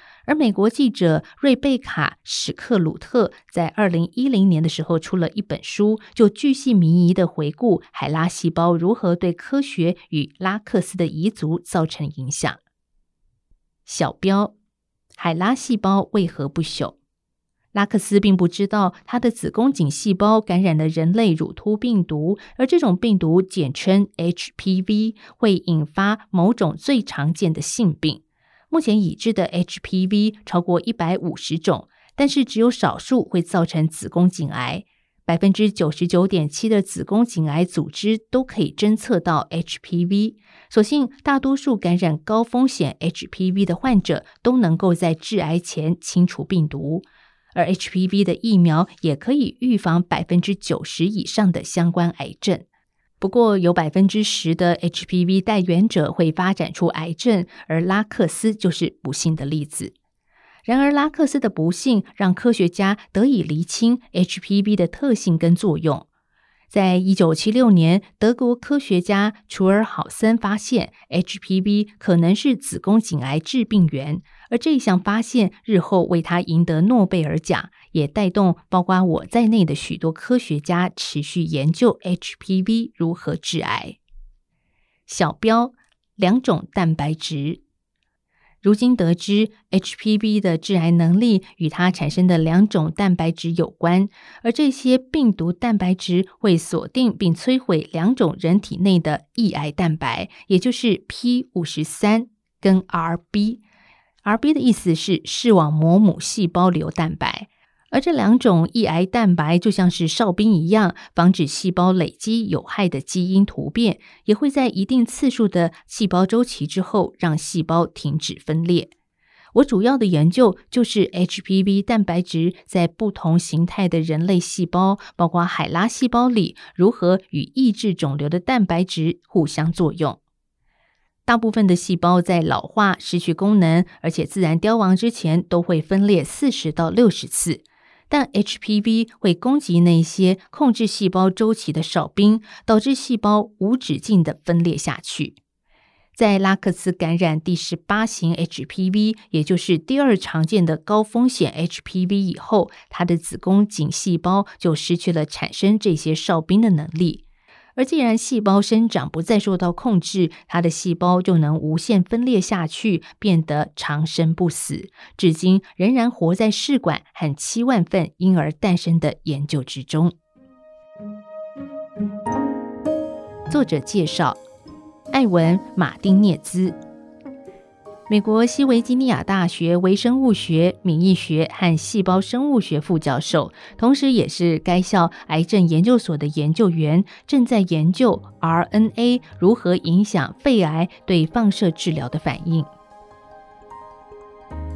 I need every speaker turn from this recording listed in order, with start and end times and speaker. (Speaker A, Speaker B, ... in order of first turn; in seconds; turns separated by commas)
Speaker A: 0.3-12.6, Speaker A: 13.9-14.5, Speaker A: 15.2-17.0, Speaker A: 17.7-52.6, Speaker A: 53.2-59.9, Speaker A: 60.6-66.1, Speaker A: 66.7-84.0, Speaker A: 85.1-87.6, Speaker A: 88.6-103.6, Speaker A: 104.2-118.9, Speaker A: 119.5-130.2, Speaker A: 131.3-145.4, Speaker A: 146.2-157.2, Speaker A: 157.8-170.1, Speaker A: 173.5-174.4, Speaker A: 175.1-176.8, Speaker A: 178.1-192.7